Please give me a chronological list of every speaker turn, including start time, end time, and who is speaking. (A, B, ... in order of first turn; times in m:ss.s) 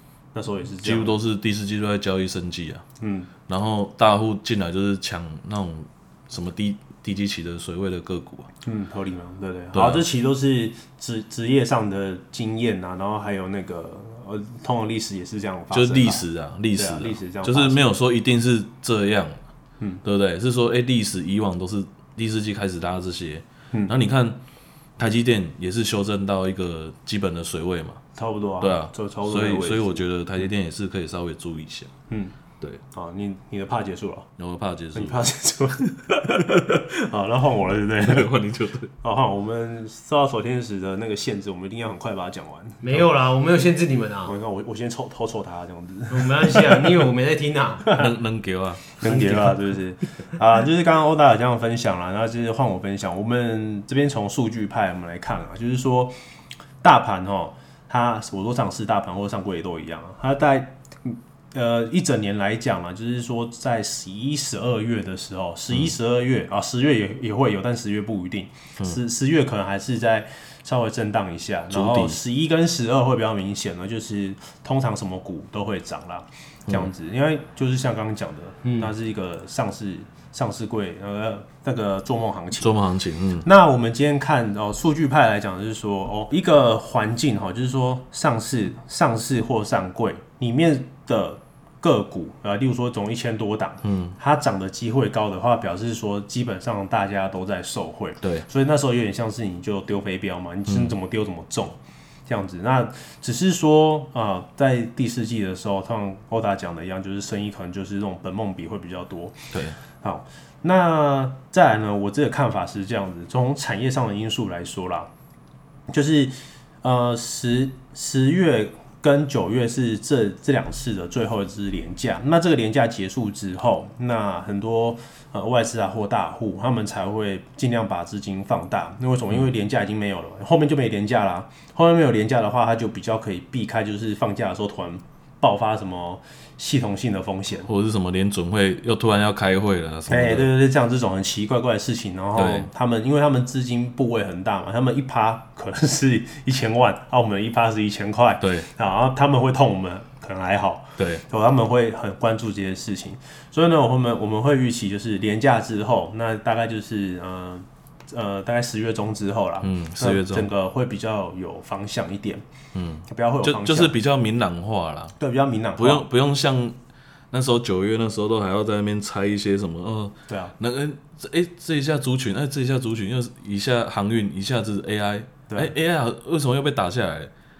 0:00.3-0:01.2 A
0:00.8-0:02.8 B
0:03.0-0:03.3 A
0:03.5-0:08.5 B
0:08.6-0:17.9 A
0:09.7-0:10.0 B
0:15.7-0:19.4 B
0:20.0-0:24.4 B
0:25.0-0:28.0 B
0:28.1-0:30.5 A
0:28.6-0:31.9 B
0:32.1-0:32.3 A
0:32.9-0:34.3 A
0:34.4-0:35.2 B
0:34.9-0:38.4 A
0:38.0-0:38.9 B
0:39.0-0:43.1 A
0:42.8-0:44.3 C
0:44.2-0:47.0 A
0:46.1-0:47.9 C
0:47.9-0:48.8 B
0:49.0-0:56.1 A
0:49.0-0:49.6 C
0:56.8-1:22.7 A
1:11.7-1:12.2 B
1:18.6-1:18.9 C
1:22.6-1:23.4 B
1:23.4-1:55.1 A
1:33.8-1:34.2 B
1:40.7-1:40.9 B
1:49.5-1:49.8 B
1:55.9-2:17.7 A
2:17.6-2:20.5 B
2:20.1-2:42.4 A
2:22.3-2:22.7 B
2:28.4-2:28.7 B
2:31.0-2:31.2 B
2:39.6-2:40.5 B
2:42.7-2:45.1 B
2:43.1-2:43.9 A
2:45.2-2:46.0 A
2:45.8-2:46.8 B
2:47.3-2:57.3 B
2:50.3-2:50.5 A
2:55.5-2:55.7 A